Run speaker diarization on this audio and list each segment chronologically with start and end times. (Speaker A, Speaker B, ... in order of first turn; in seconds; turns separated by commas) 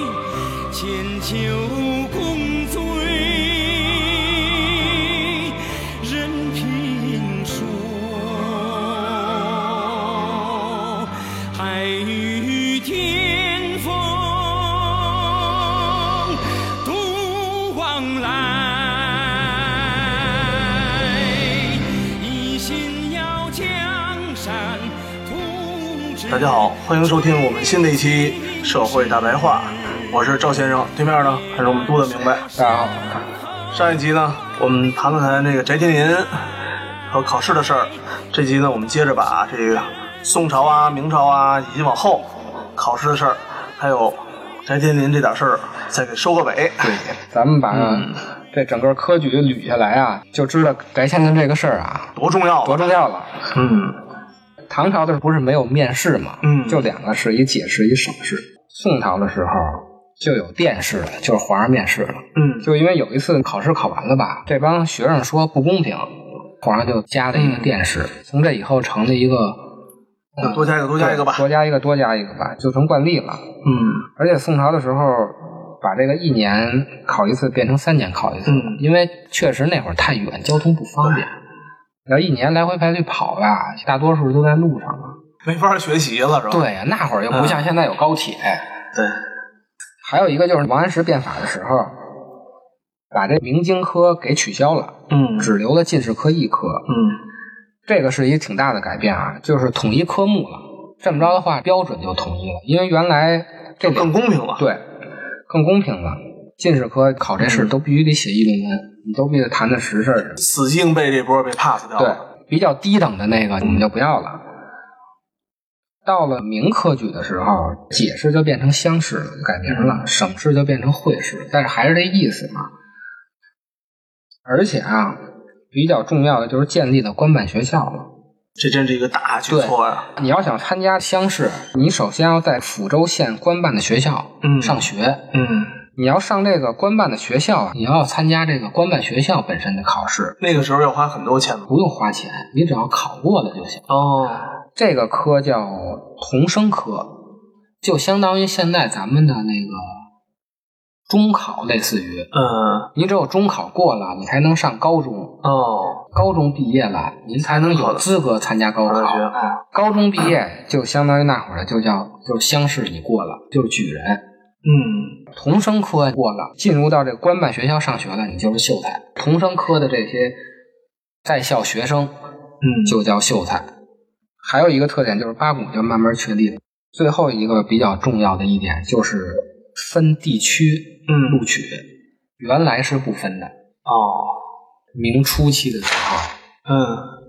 Speaker A: 0.7-10.3, Speaker A: 11.5-20.8, Speaker A: 22.2-26.3, Speaker B: 26.3-32.4, Speaker C: 32.5-33.3, Speaker B: 33.7-36.3, Speaker B: 37.1-47.0, Speaker C: 46.8-53.5, Speaker B: 47.7-48.2, Speaker B: 52.1-52.9, Speaker B: 53.5-54.0, Speaker C: 54.7-69.7, Speaker B: 56.4-56.9, Speaker B: 62.3-62.7, Speaker B: 67.3-67.8, Speaker B: 70.4-71.5, Speaker C: 70.4-73.5, Speaker B: 73.6-74.0, Speaker C: 74.1-81.3, Speaker B: 78.5-78.8, Speaker C: 82.0-85.2, Speaker B: 85.4-86.7, Speaker C: 86.5-88.6, Speaker B: 87.3-87.6, Speaker C: 90.0-92.0, Speaker C: 93.1-96.9, Speaker B: 95.1-95.5, Speaker B: 96.9-97.2, Speaker C: 97.9-104.8, Speaker B: 103.8-104.6, Speaker C: 105.5-110.4, Speaker B: 107.4-107.7, Speaker B: 110.4-112.2, Speaker C: 112.0-114.4, Speaker C: 116.0-122.7, Speaker B: 119.7-120.1, Speaker C: 124.5-128.1, Speaker B: 128.6-130.1, Speaker C: 129.5-135.3, Speaker B: 134.4-135.7, Speaker C: 135.9-140.6, Speaker B: 140.4-141.7, Speaker C: 141.7-143.9, Speaker B: 143.9-144.5, Speaker C: 144.7-147.2, Speaker C: 147.8-150.1, Speaker C: 151.1-152.3, Speaker B: 152.3-152.9, Speaker C: 152.9-155.4, Speaker B: 155.4-156.0, Speaker C: 156.1-164.2, Speaker B: 157.4-158.1, Speaker B: 158.9-159.6, Speaker B: 164.6-165.2, Speaker C: 165.3-170.4, Speaker C: 171.2-172.1, Speaker B: 172.6-172.9, Speaker C: 172.8-173.7, Speaker C: 174.4-181.9, Speaker B: 181.1-181.4, Speaker C: 182.4-183.5, Speaker B: 183.8-184.4, Speaker C: 184.9-186.3, Speaker B: 186.7-187.1